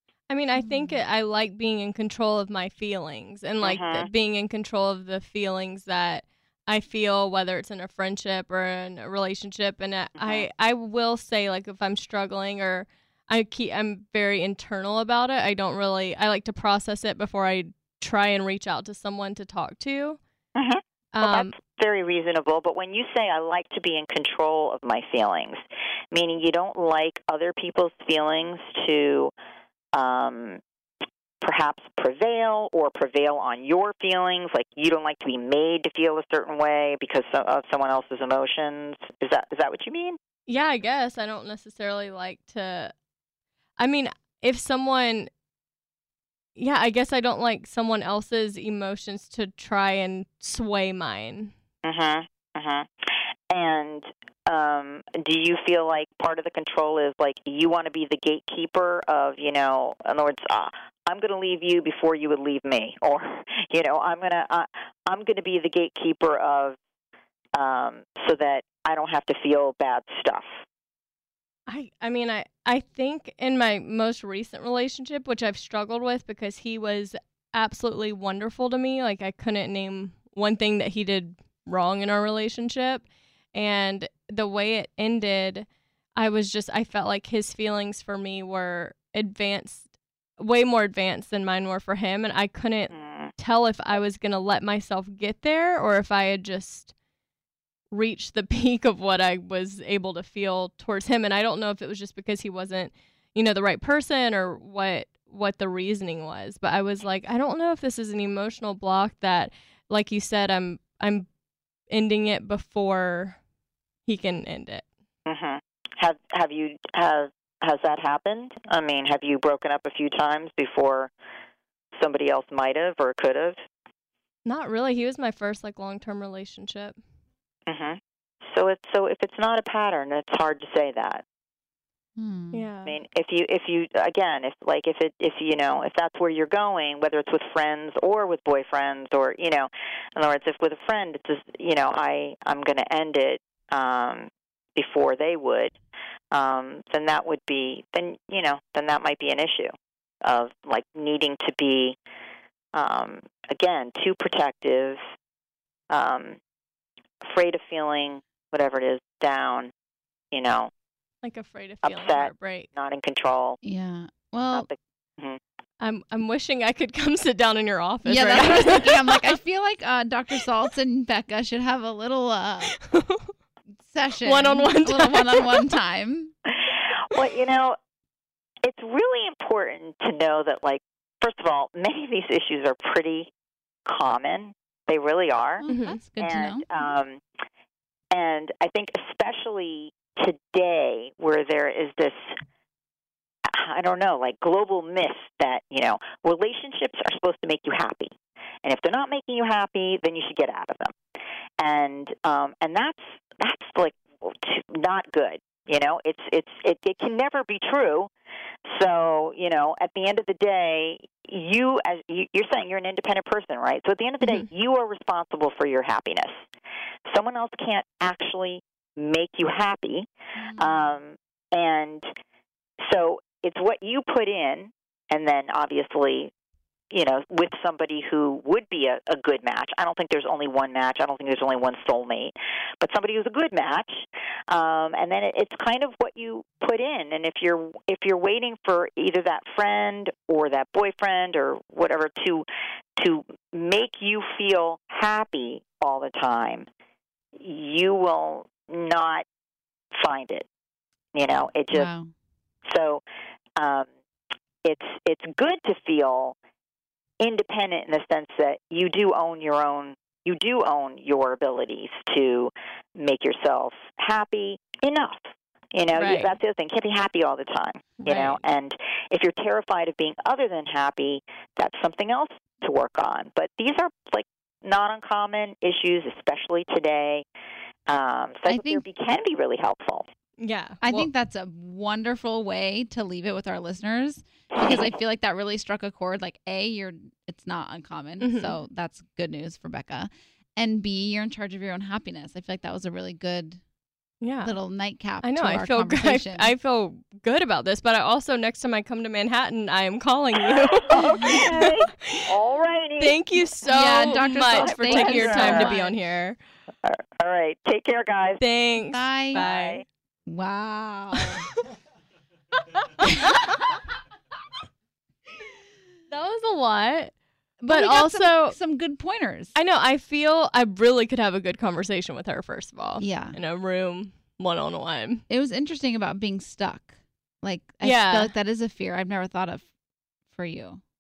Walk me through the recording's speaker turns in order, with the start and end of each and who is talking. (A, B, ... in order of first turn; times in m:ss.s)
0:00.3-0:20.2 A
0:00.6-0:00.9 B
0:03.6-0:04.1 C
0:10.2-0:10.5 C
0:20.6-0:25.6 C
0:21.2-0:21.6 A
0:26.1-0:29.3 C
0:29.9-0:30.6 C
0:31.4-0:40.2 C
0:40.5-0:42.9 A
0:43.8-0:45.3 A
0:46.6-0:51.5 A
0:51.8-0:52.9 C
0:53.5-1:06.8 C
1:07.6-1:10.5 C
1:11.7-1:29.9 A
1:30.4-1:36.9 A
1:32.9-1:33.3 C
1:37.9-1:51.3 A
1:51.9-1:53.4 A
1:54.1-1:54.9 A
1:55.3-2:01.1 C
2:02.0-2:03.6 C
2:04.5-2:07.0 A
2:07.7-2:11.2 C
2:12.2-2:12.6 B
2:12.5-2:13.0 A
2:12.8-2:25.8 C
2:26.3-2:32.0 C
2:32.7-2:35.0 C
2:35.9-2:36.4 C
2:37.2-2:39.7 C
2:40.3-2:40.7 C
2:41.2-2:42.7 A
2:41.8-2:43.6 C
2:43.6-2:44.7 B
2:44.5-2:45.4 C
2:45.8-2:49.3 A
2:48.0-2:52.7 B
2:52.8-2:53.3 A
2:53.8-2:56.3 B
2:54.2-2:55.7 A
2:56.6-2:57.8 C
2:58.6-3:03.3 C
3:03.8-3:05.7 C
3:05.6-3:06.7 B
3:05.7-3:06.0 A
3:06.2-3:07.2 C
3:08.1-3:12.3 C
3:13.5-3:21.0 C
3:21.6-3:28.1 C
3:28.7-3:36.4 C
3:37.1-3:42.1 C
3:40.4-3:41.0 B
3:42.8-3:46.3 C
3:46.9-4:02.5 C
4:03.0-4:06.7 C
4:07.4-4:09.2 C
4:09.9-4:10.5 C
4:11.2-4:11.9 C
4:11.7-4:12.1 B
4:12.7-4:13.0 C
4:13.6-4:13.9 C
4:14.6-4:16.4 C
4:17.2-4:37.2 C
4:25.9-4:26.4 A
4:28.0-4:28.4 A
4:37.9-4:40.0 C
4:38.5-4:38.8 B
4:40.4-4:41.1 A
4:40.8-4:53.6 B
4:48.2-4:48.6 A
4:54.2-4:54.6 A
4:54.4-4:56.5 B
4:55.2-5:02.3 A
5:00.7-5:03.2 C
5:03.0-5:06.4 A
5:03.7-5:05.9 B
5:04.2-5:05.8 C
5:06.8-5:08.4 C
5:08.4-5:09.8 A
5:08.8-5:09.4 B
5:09.3-5:09.8 C
5:10.3-5:11.4 B
5:12.8-5:13.6 A
5:13.0-5:13.4 B
5:16.1-5:17.1 A
5:17.6-5:19.6 B
5:17.7-5:18.6 A
5:19.6-5:25.2 A
5:23.0-5:23.4 B
5:25.3-5:29.6 B
5:27.8-5:28.3 A
5:30.3-5:30.8 B